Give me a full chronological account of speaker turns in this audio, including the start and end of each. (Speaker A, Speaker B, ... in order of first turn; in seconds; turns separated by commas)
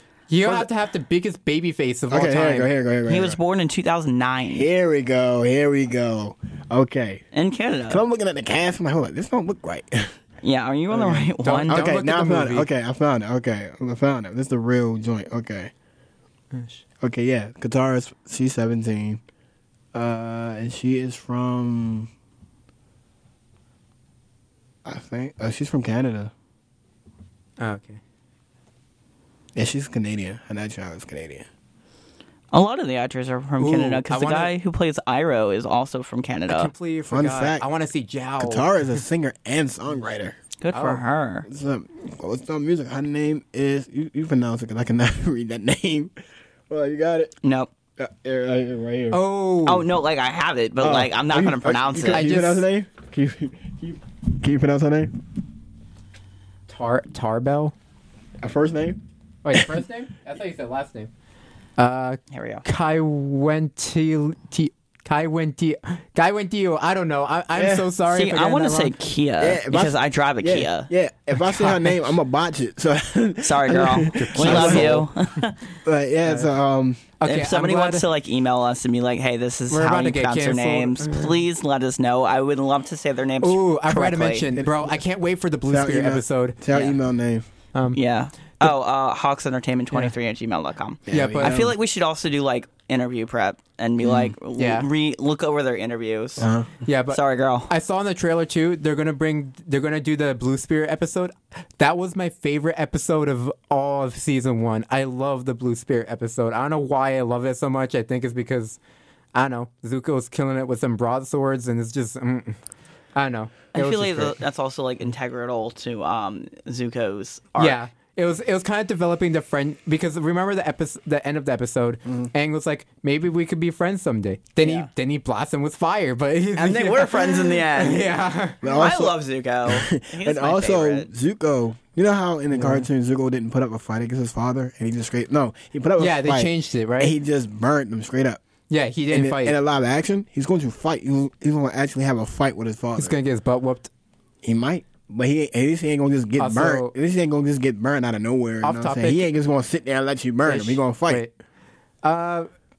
Speaker A: 0.3-2.7, Speaker B: 0.4-0.7, Speaker B: 2.1-3.4, Speaker C: 3.1-4.7, Speaker B: 4.5-7.2, Speaker C: 7.3-8.0, Speaker B: 7.9-10.1, Speaker C: 10.4-11.8, Speaker B: 10.9-15.7, Speaker A: 11.4-12.7, Speaker A: 16.5-16.8, Speaker B: 17.0-19.2, Speaker B: 19.9-22.1, Speaker B: 24.8-26.3, Speaker A: 27.6-28.0, Speaker B: 29.6-31.4, Speaker C: 32.5-36.7, Speaker B: 33.6-34.0, Speaker A: 34.1-34.5, Speaker A: 36.5-39.0, Speaker B: 37.1-37.6, Speaker B: 38.4-40.4, Speaker C: 40.6-41.5, Speaker A: 40.7-41.0, Speaker B: 41.5-46.1, Speaker B: 46.7-47.3, Speaker C: 47.4-47.7, Speaker B: 48.0-49.2, Speaker A: 49.1-49.9, Speaker C: 49.6-52.2, Speaker B: 50.8-55.1, Speaker A: 52.0-52.6, Speaker A: 56.7-57.7, Speaker B: 58.4-59.0, Speaker A: 59.4-61.1, Speaker A: 61.8-68.9, Speaker C: 62.3-62.6, Speaker B: 67.5-67.9, Speaker C: 68.1-70.9, Speaker B: 69.4-75.1, Speaker A: 71.4-71.9, Speaker C: 73.4-75.6, Speaker A: 74.1-75.1, Speaker B: 75.8-77.0, Speaker A: 77.2-78.0, Speaker C: 77.2-84.5, Speaker A: 79.7-81.4, Speaker A: 83.4-86.6, Speaker B: 84.5-85.0, Speaker B: 85.7-87.5, Speaker A: 87.7-88.0, Speaker C: 87.9-96.5, Speaker B: 91.1-91.8, Speaker A: 91.1-91.7, Speaker B: 94.0-94.3, Speaker A: 94.6-94.9, Speaker B: 96.4-96.7, Speaker A: 96.8-108.8, Speaker C: 97.1-97.7, Speaker A: 109.3-112.6, Speaker A: 113.2-114.4, Speaker C: 113.7-117.8, Speaker A: 117.6-128.6, Speaker C: 124.6-124.9, Speaker C: 126.6-128.1, Speaker B: 128.6-138.4, Speaker C: 128.6-131.1, Speaker A: 132.5-132.9, Speaker A: 136.0-137.1, Speaker A: 138.7-139.6, Speaker B: 139.1-143.2, Speaker A: 143.0-143.9, Speaker B: 144.4-151.2, Speaker A: 146.4-146.9, Speaker A: 148.6-149.2, Speaker A: 150.4-151.3, Speaker A: 152.0-152.5